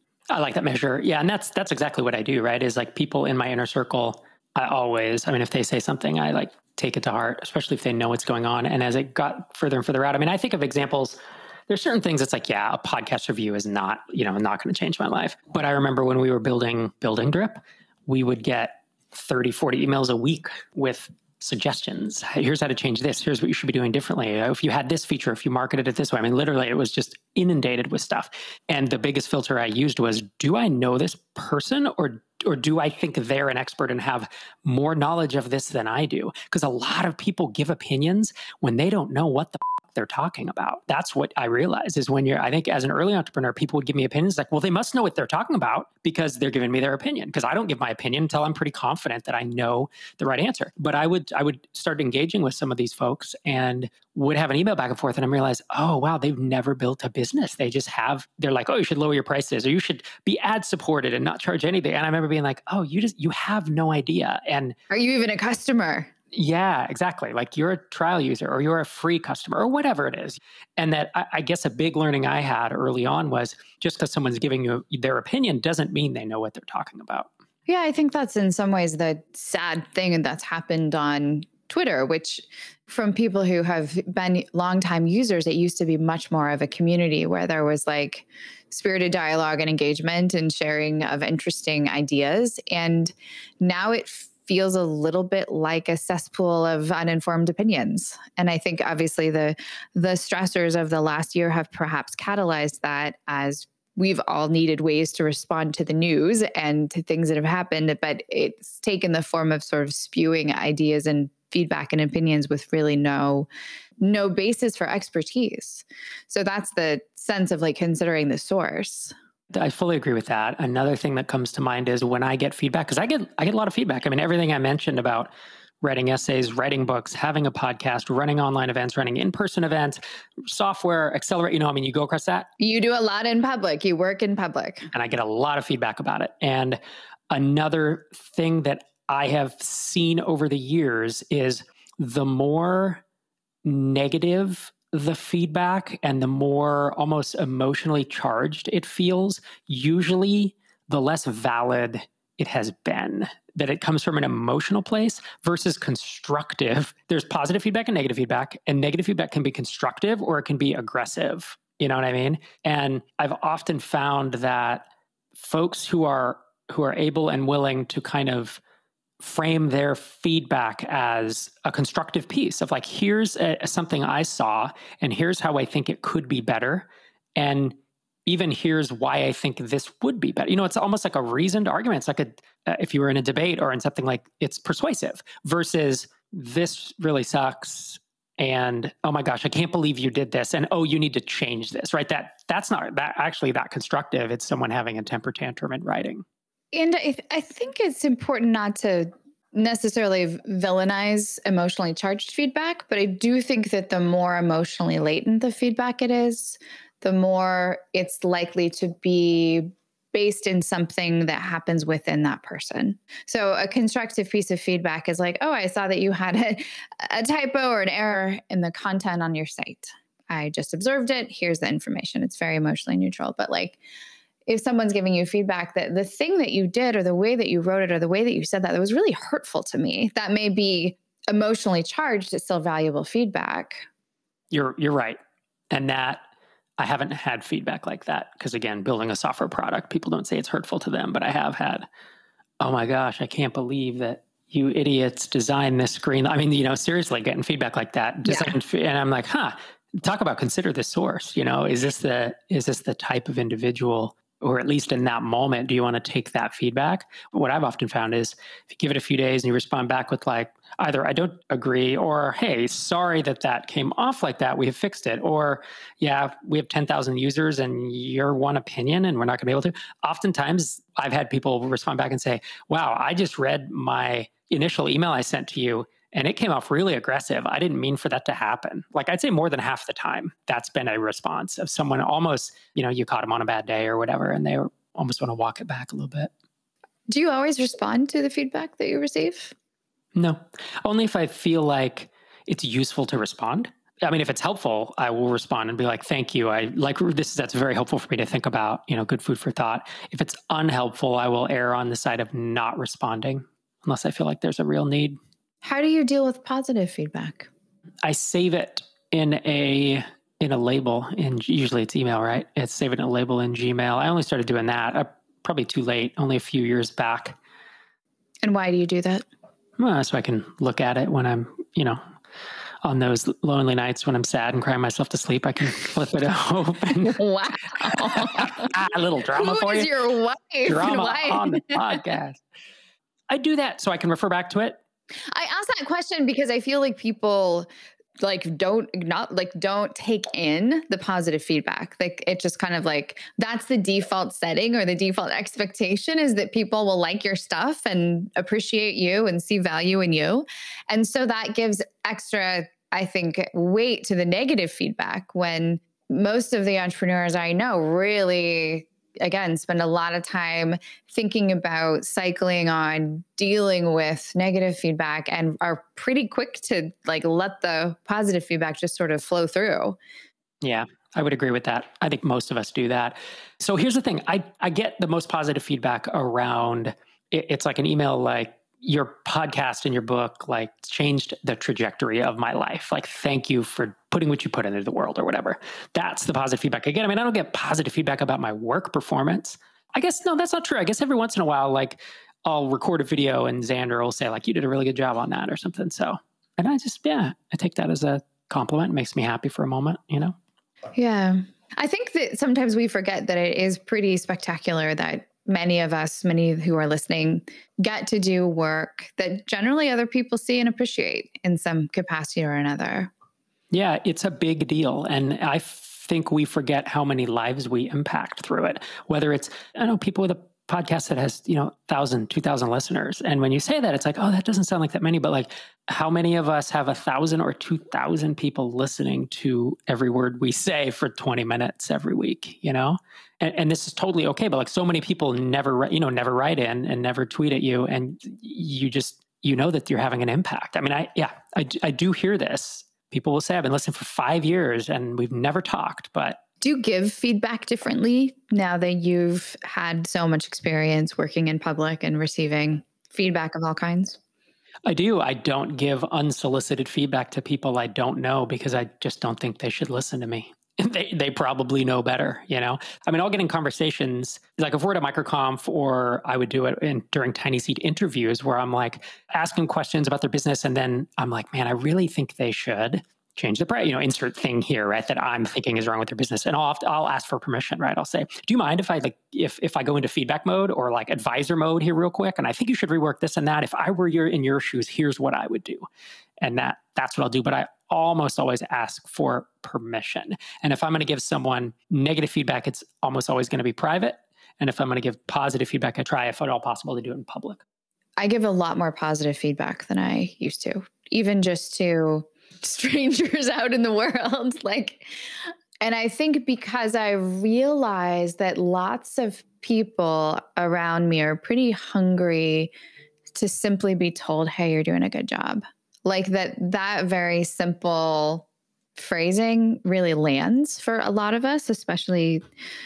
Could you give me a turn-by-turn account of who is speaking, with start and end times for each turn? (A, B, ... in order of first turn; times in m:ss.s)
0:00.3-1:04.7 A
1:04.9-1:06.1 B
1:06.3-1:17.3 A
1:17.7-1:53.5 B
1:54.0-1:59.1 B
1:59.5-2:05.3 A
2:05.8-2:12.5 A
2:12.6-2:14.9 B
2:14.9-2:23.0 A
2:23.6-2:48.6 A
2:49.2-3:16.2 A
3:16.7-3:43.8 B
3:44.5-3:53.8 B
3:54.5-3:55.2 A
3:55.7-3:56.2 A
3:56.8-4:01.8 A
4:02.6-4:46.3 A
4:08.2-4:08.6 B
4:47.1-4:49.5 B
4:50.1-5:05.2 A
5:05.6-5:07.5 B
5:08.0-5:17.4 A
5:18.4-5:19.2 B
5:19.8-5:22.0 A
5:22.8-5:27.2 A
5:27.1-5:28.7 B
5:27.8-5:29.9 A
5:29.3-5:32.0 B
5:30.6-5:32.4 A
5:33.3-5:34.8 A
5:35.3-5:37.7 B
5:38.2-6:10.0 B
6:10.6-6:40.3 A
6:40.9-6:53.1 B
6:53.7-7:26.4 A
7:26.6-7:34.2 B
7:34.8-8:05.8 A
8:06.4-8:17.6 A
8:18.2-8:32.7 B
8:33.3-8:42.4 B